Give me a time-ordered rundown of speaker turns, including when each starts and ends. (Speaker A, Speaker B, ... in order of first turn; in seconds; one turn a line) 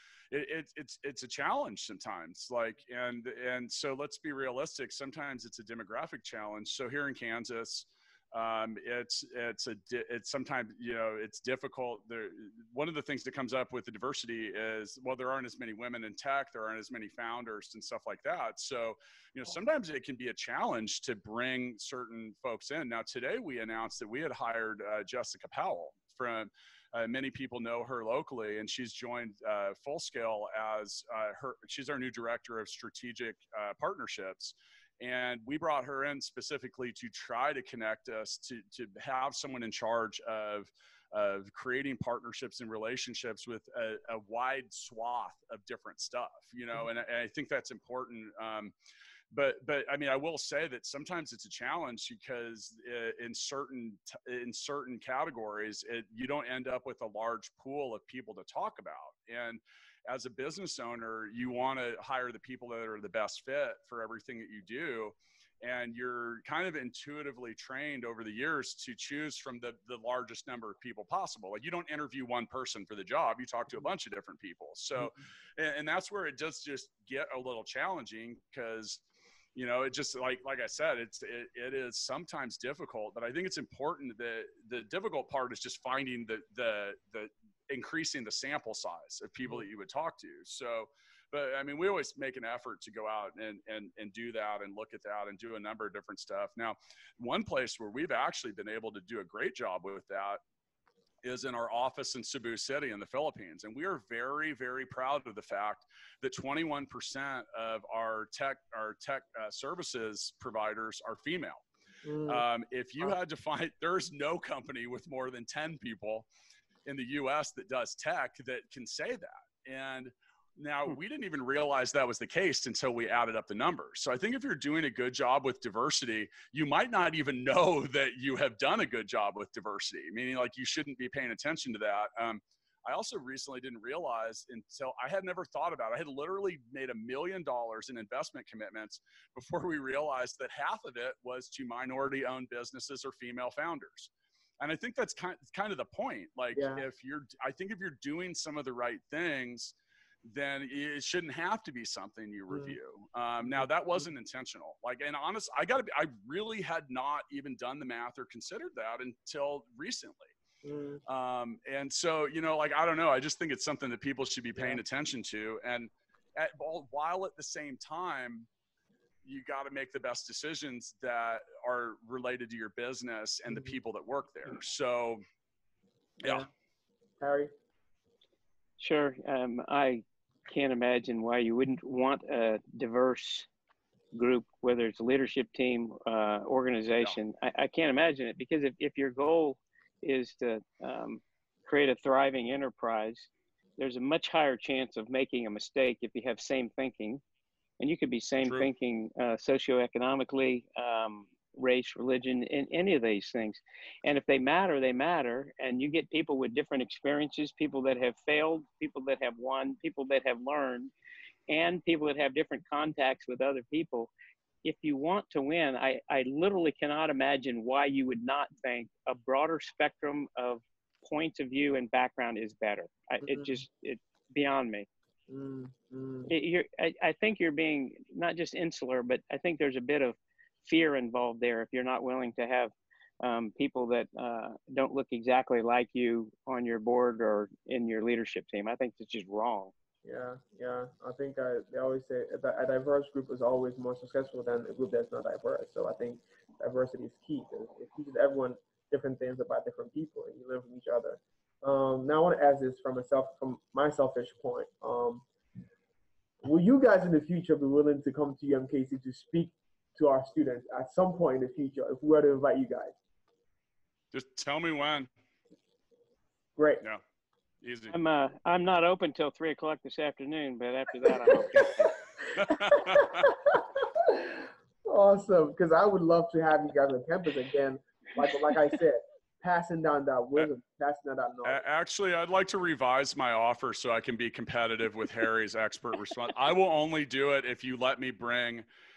Speaker A: 0.3-48.7
Speaker A: 49.3-79.0
Speaker A: 79.5-100.4
Speaker A: 101.2-111.6
Speaker B: 112.0-112.5
Speaker A: 112.2-116.2
Speaker A: 116.8-149.7
Speaker B: 146.5-146.8
Speaker A: 150.2-160.3
Speaker B: 152.5-152.8
Speaker B: 153.4-154.1
Speaker B: 160.6-161.0
Speaker A: 161.1-168.5
Speaker B: 164.5-164.8
Speaker A: 169.2-175.2
Speaker B: 173.5-173.8
Speaker B: 176.2-176.5
Speaker B: 177.2-177.5
Speaker C: 178.8-183.5
Speaker C: 184.1-197.2
Speaker C: 197.8-210.9
Speaker C: 211.5-214.1
Speaker C: 214.6-224.9
Speaker B: 223.2-223.6
Speaker B: 225.3-226.3
Speaker C: 226.3-239.7
Speaker B: 240.0-255.2
Speaker B: 256.4-262.9
Speaker A: 264.1-265.1
Speaker B: 266.6-266.8
Speaker A: 267.6-267.9
Speaker C: 267.9-271.9
Speaker A: 272.3-273.4
Speaker B: 272.5-281.6
Speaker A: 281.4-288.6